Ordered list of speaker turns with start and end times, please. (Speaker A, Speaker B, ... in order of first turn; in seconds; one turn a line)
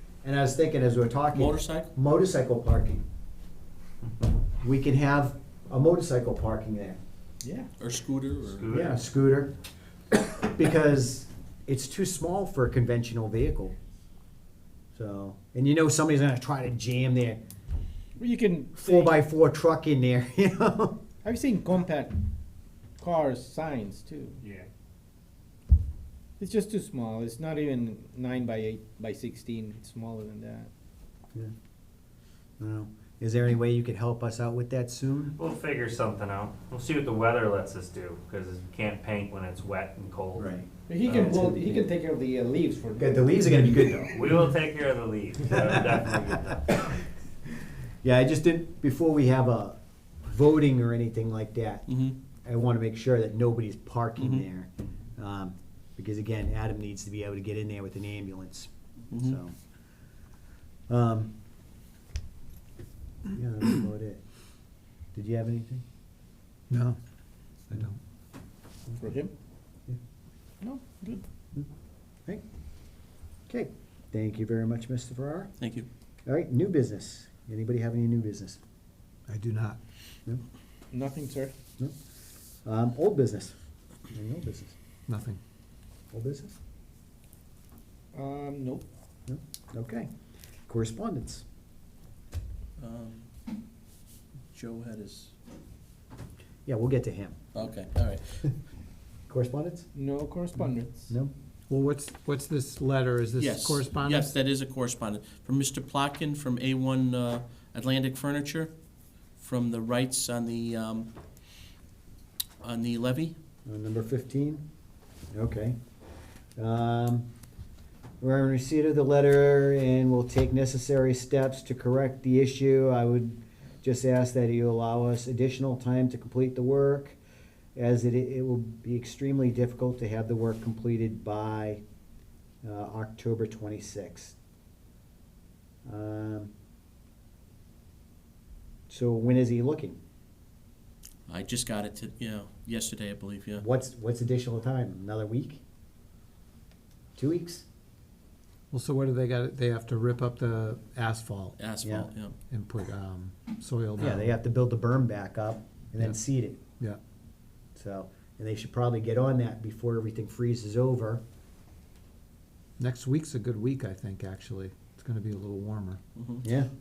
Speaker A: 0.2-3.0
Speaker B: 1.3-1.9
Speaker A: 4.6-7.0
Speaker C: 7.4-7.7
Speaker B: 7.8-8.8
Speaker D: 8.4-9.0
Speaker A: 8.7-9.5
Speaker A: 10.1-13.7
Speaker A: 14.9-17.4
Speaker C: 18.2-19.2
Speaker A: 18.8-20.9
Speaker C: 21.2-22.2
Speaker C: 23.0-24.4
Speaker D: 24.4-24.7
Speaker C: 26.4-30.7
Speaker A: 32.6-35.3
Speaker D: 35.4-40.5
Speaker A: 40.4-41.7
Speaker C: 40.9-43.3
Speaker D: 41.0-41.5
Speaker A: 43.0-44.2
Speaker D: 44.1-46.8
Speaker A: 45.5-45.9
Speaker A: 48.0-51.9
Speaker B: 51.9-52.1
Speaker A: 52.4-59.5
Speaker B: 54.2-54.4
Speaker B: 59.1-59.4
Speaker A: 60.9-61.3
Speaker A: 63.3-64.2
Speaker A: 65.1-65.8
Speaker E: 66.7-67.0
Speaker E: 67.7-68.0
Speaker C: 69.0-69.3
Speaker C: 70.6-71.2
Speaker A: 73.5-75.5
Speaker B: 75.6-75.9
Speaker A: 76.2-78.6
Speaker E: 79.3-79.8
Speaker C: 80.9-81.5
Speaker A: 82.6-83.5
Speaker A: 84.1-84.7
Speaker E: 85.1-85.4
Speaker A: 86.1-86.6
Speaker C: 88.1-88.9
Speaker A: 89.3-90.1
Speaker A: 90.7-91.4
Speaker B: 92.8-93.2
Speaker B: 94.5-95.3
Speaker A: 96.7-97.4
Speaker B: 97.5-98.4
Speaker A: 99.3-99.9
Speaker C: 99.9-101.1
Speaker E: 101.7-104.3
Speaker B: 103.4-108.7
Speaker B: 109.3-111.1
Speaker B: 112.6-113.3
Speaker A: 113.7-114.6
Speaker A: 115.3-115.8
Speaker A: 116.6-117.3
Speaker A: 118.2-127.2
Speaker A: 127.8-131.8
Speaker A: 132.6-134.3
Speaker A: 135.8-136.5
Speaker A: 138.9-140.0
Speaker B: 141.3-143.6
Speaker A: 143.6-145.6
Speaker A: 147.2-147.6
Speaker E: 148.7-151.6
Speaker B: 151.6-152.3
Speaker A: 151.8-152.1
Speaker E: 152.5-154.3
Speaker A: 154.0-156.6
Speaker A: 157.7-161.2
Speaker E: 162.8-166.0
Speaker B: 166.1-166.4
Speaker A: 166.4-166.7